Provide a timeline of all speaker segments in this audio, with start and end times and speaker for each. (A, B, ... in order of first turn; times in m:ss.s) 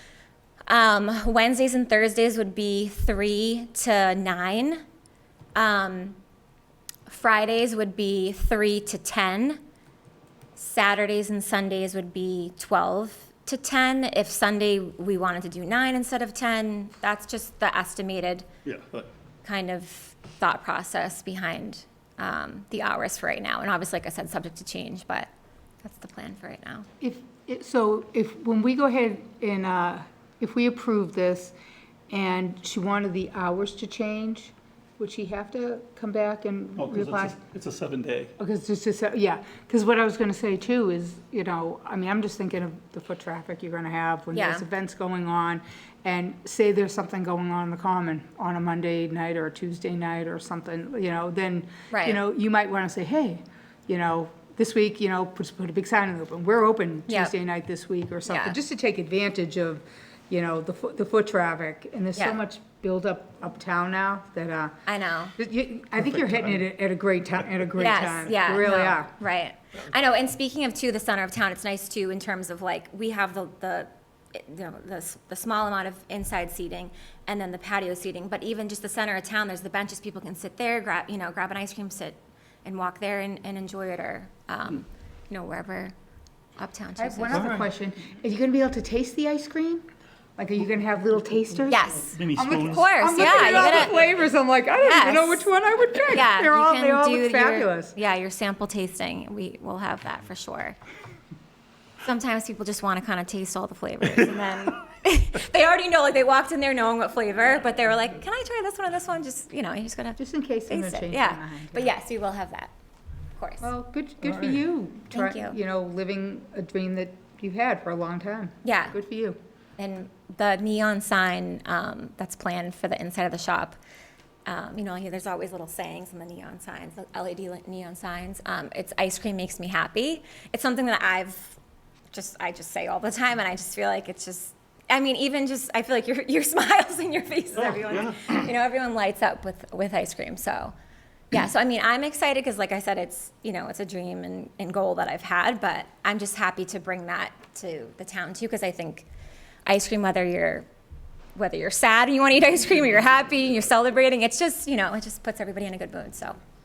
0:00.7-0:04.8 A
0:05.6-0:06.2 A
0:07.1-0:09.6 A
0:10.6-0:18.5 A
0:18.6-0:19.1 B
0:19.4-0:25.3 A
0:25.8-0:26.9 A
0:27.0-0:31.5 C
0:32.1-0:37.4 C
0:36.8-0:38.3 B
0:38.4-1:04.8 C
0:44.3-0:44.7 A
0:51.9-0:52.2 A
0:57.1-0:57.3 A
0:58.3-0:58.6 A
1:04.9-1:05.4 A
1:05.4-1:09.1 C
1:07.8-1:25.9 A
1:26.6-1:27.5 A
1:27.0-1:29.8 C
1:27.3-1:27.7 B
1:30.4-1:37.9 C
1:31.7-1:34.1 A
1:32.1-1:33.7 B
1:34.8-1:35.5 A
1:36.1-1:40.8 A
1:42.0-1:52.7 A
1:50.2-1:51.9 C
1:53.4-1:53.7 A
1:53.6-1:59.4 C
1:55.1-1:55.6 A
1:58.6-1:59.0 A
1:59.8-2:03.8 A
2:04.5-2:11.6 A
2:12.1-2:20.7 A
2:17.6-2:18.2 B
2:21.3-2:29.1 A
2:29.7-2:30.7 A
2:31.4-2:36.4 A